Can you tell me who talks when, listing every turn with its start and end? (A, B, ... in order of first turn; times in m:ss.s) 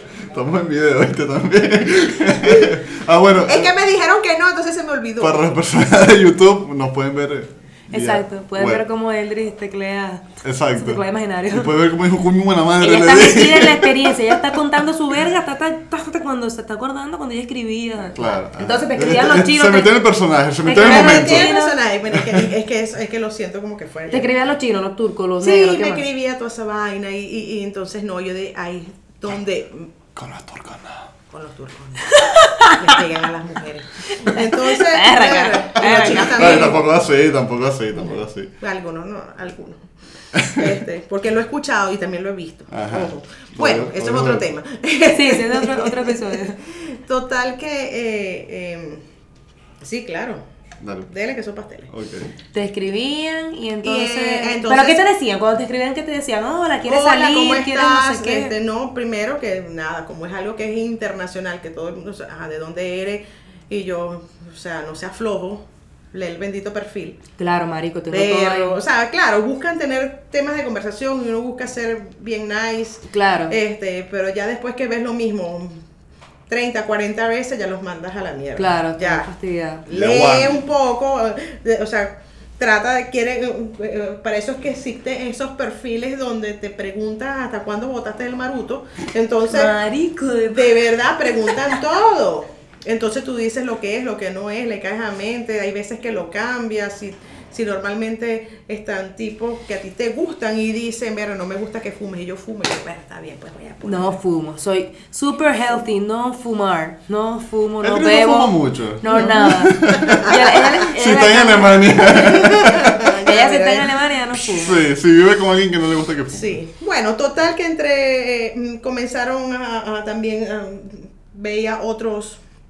0:00.3-0:03.7 A
0:03.4-0:05.5 B
0:05.2-0:08.8 A
0:07.9-0:11.7 C
0:10.4-0:14.4 A
0:12.8-0:20.0 C
0:18.1-0:21.5 A
0:20.6-0:21.8 C
0:20.7-0:24.3 B
0:22.1-0:22.5 A
0:24.1-0:26.0 C
0:25.4-0:29.9 B
0:30.1-0:31.1 A
0:31.3-0:36.8 B
0:32.1-0:33.0 C
0:34.1-0:36.8 C
0:35.8-0:38.5 A
0:38.6-0:39.8 B
0:40.4-0:40.6 A
0:40.4-0:49.0 B
0:42.7-0:44.4 A
0:45.1-0:46.6 C
0:49.8-0:50.4 B
0:50.8-0:51.1 A
0:51.1-0:51.9 B
0:51.9-0:52.3 A
0:52.5-0:58.5 C
0:53.8-0:55.0 B
0:56.8-1:07.2 B
1:07.4-1:08.8 C
1:08.1-1:15.8 B
1:13.1-1:13.6 C
1:16.5-1:19.3 B
1:18.6-1:19.8 C
1:19.8-1:29.7 B
1:19.9-1:20.6 A
1:29.5-1:30.8 C
1:30.5-1:44.2 B
1:43.8-1:52.1 C
1:47.8-1:53.0 A
1:49.1-1:50.7 B
1:52.0-1:53.9 B
1:53.2-1:54.8 C
1:54.4-1:56.6 A
1:56.3-2:02.4 B